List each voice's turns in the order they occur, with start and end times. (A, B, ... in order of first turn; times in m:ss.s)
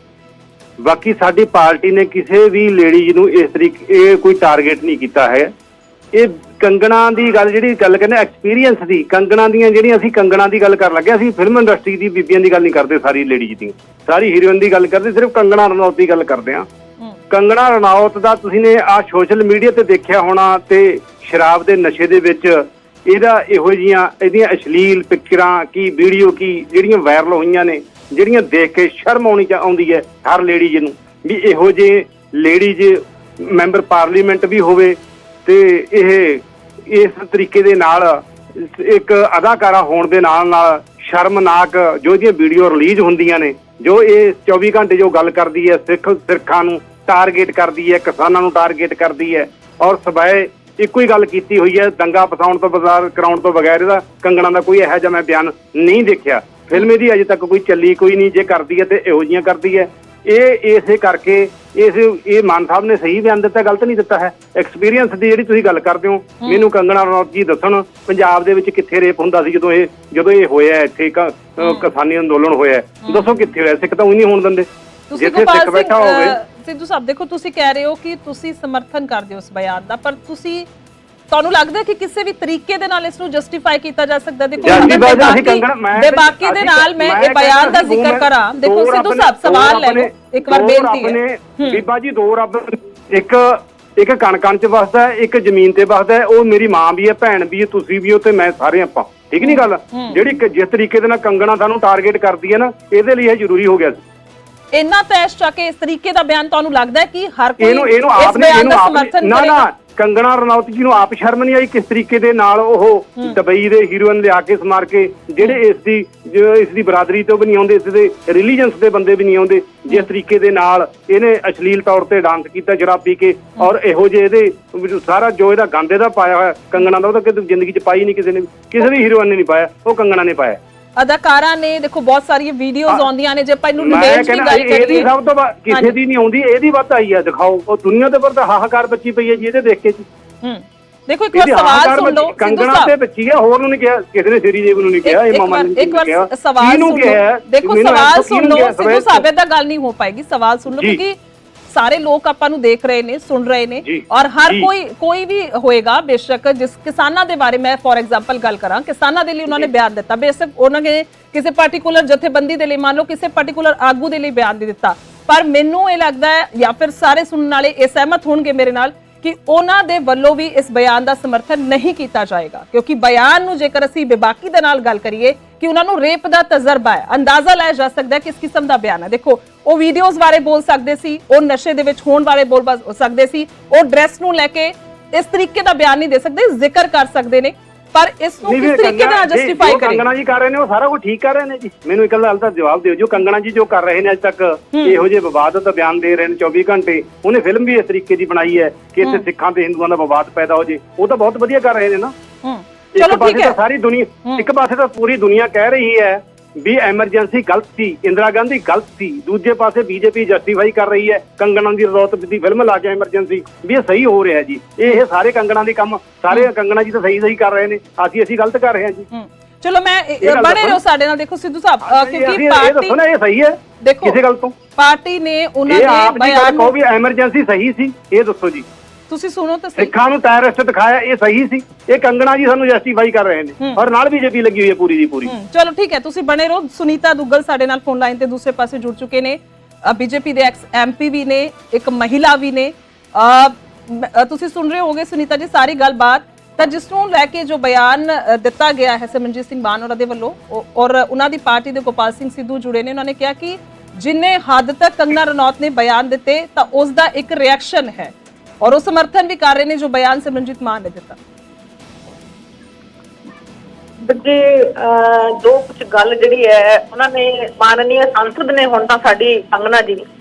0:00.8-0:05.5 A
0:06.1-0:16.6 A
0:17.3-1:16.4 A
1:06.4-1:06.7 B
1:11.6-1:11.9 B
1:15.1-1:20.7 B
1:21.3-1:31.8 B
1:24.6-1:44.0 A
1:39.4-1:40.2 B
1:44.7-1:49.7 B
1:47.6-2:10.6 A
2:11.0-2:15.1 B
2:13.8-2:20.0 A
2:15.7-2:15.9 B
2:20.4-2:22.9 B
2:21.3-2:29.2 A
2:25.0-2:31.2 B
2:31.7-3:10.0 B
2:33.8-2:34.7 A
3:08.4-3:22.1 A
3:14.7-3:15.0 B
3:22.4-3:23.6 B
3:22.9-3:39.1 A
3:39.1-3:43.0 B
3:40.2-3:40.8 A
3:41.8-3:44.5 A
3:43.8-3:44.2 B
3:44.8-3:46.7 B
3:45.7-3:48.6 A
3:49.1-3:49.9 B
3:49.8-3:55.3 A
3:55.2-4:21.2 B
4:24.0-4:30.0 C